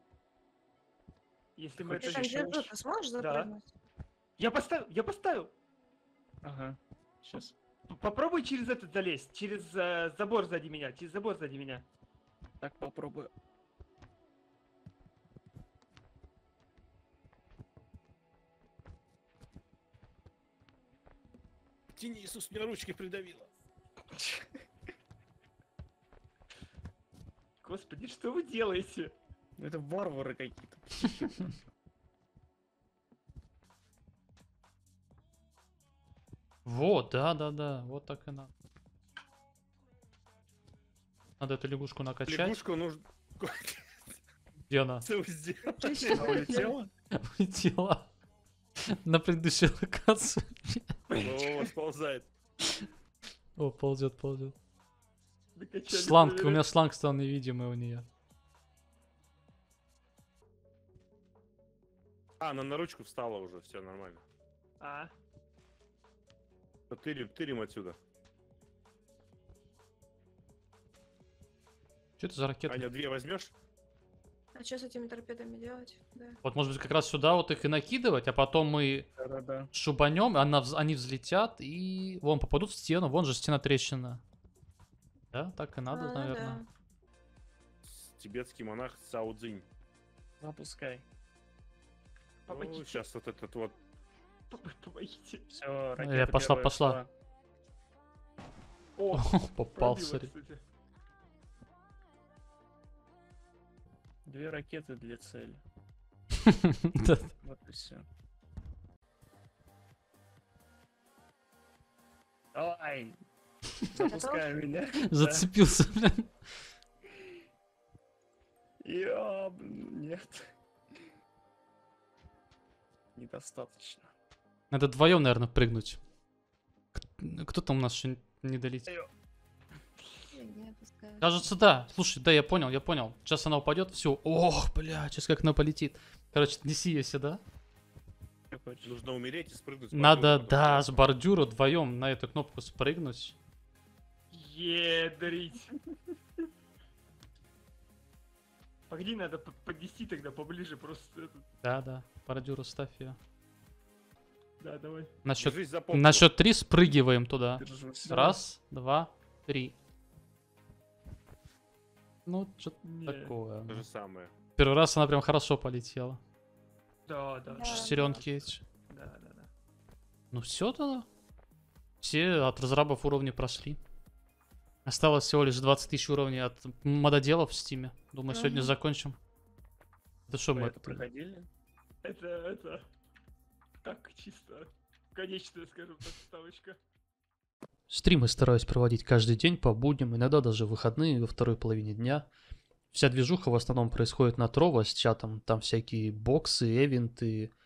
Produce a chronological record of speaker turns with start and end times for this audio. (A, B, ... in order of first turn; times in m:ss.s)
0:01.6-0:02.5 A
0:01.8-0:02.7 B
0:01.9-0:03.7 C
0:03.2-0:03.5 A
0:04.4-0:05.5 A
0:06.4-0:07.5 B
0:07.9-0:11.8 A
0:12.6-0:13.3 B
0:21.9-0:23.5 D
0:24.2-0:24.5 B
0:27.6-0:29.1 A
0:29.6-0:31.6 B
0:36.6-0:38.5 E
0:41.4-0:42.6 E
0:42.3-0:44.0 D
0:44.7-0:45.0 E
0:45.0-0:46.3 D
0:45.7-0:46.7 C
0:46.1-0:46.9 B
0:47.2-0:48.1 E
0:48.9-0:51.0 E
0:51.2-0:52.3 D
0:53.6-0:54.5 E
0:55.6-0:56.6 A
0:55.9-0:58.0 E
1:02.4-1:04.2 D
1:04.8-1:05.1 A
1:06.9-1:08.0 D
1:12.2-1:12.9 E
1:12.7-1:13.5 D
1:14.5-1:16.4 C
1:16.4-1:19.1 E
1:19.2-1:19.7 B
1:19.7-1:24.2 E
1:25.3-1:26.6 E
1:25.9-1:26.7 C
1:27.9-1:29.6 D
1:30.4-1:31.0 B
1:32.4-1:33.0 A
1:32.5-1:33.8 D
1:34.5-1:35.4 A
1:35.5-1:37.1 B
1:36.0-1:37.0 E
1:39.0-1:40.6 A
1:39.1-1:40.3 E
1:44.2-1:45.6 B
1:46.4-1:47.3 E
1:47.4-1:48.0 B
1:52.5-1:53.2 B
1:53.9-1:55.5 B
1:54.0-1:54.5 C
1:55.0-1:56.3 E
1:58.8-2:00.5 B
2:03.2-2:04.1 B
2:04.7-2:06.0 E
2:06.9-2:08.9 E
2:10.3-2:11.4 C
2:11.2-2:17.4 E
2:18.5-2:19.0 B
2:18.8-2:21.0 D
2:19.9-2:23.4 E
2:24.3-2:25.7 A
2:28.9-2:31.4 A
2:31.6-2:33.2 E
2:34.6-2:35.1 A
2:35.2-2:39.8 E
2:35.4-2:36.3 D
2:37.6-2:38.4 B
2:42.2-2:43.9 E
2:42.8-2:43.3 A
2:43.7-2:44.3 D
2:44.6-2:46.2 E
2:47.1-2:48.2 A
2:47.6-2:48.1 C
2:47.6-2:48.6 E
2:48.9-2:49.5 A
2:50.3-2:51.1 E
2:52.0-2:53.8 E
2:54.8-2:59.2 E
2:58.3-2:58.7 C
3:00.3-3:01.0 E
3:00.5-3:01.5 B
3:02.0-3:02.8 A
3:03.8-3:06.8 A
3:07.9-3:12.3 E
3:12.9-3:17.5 E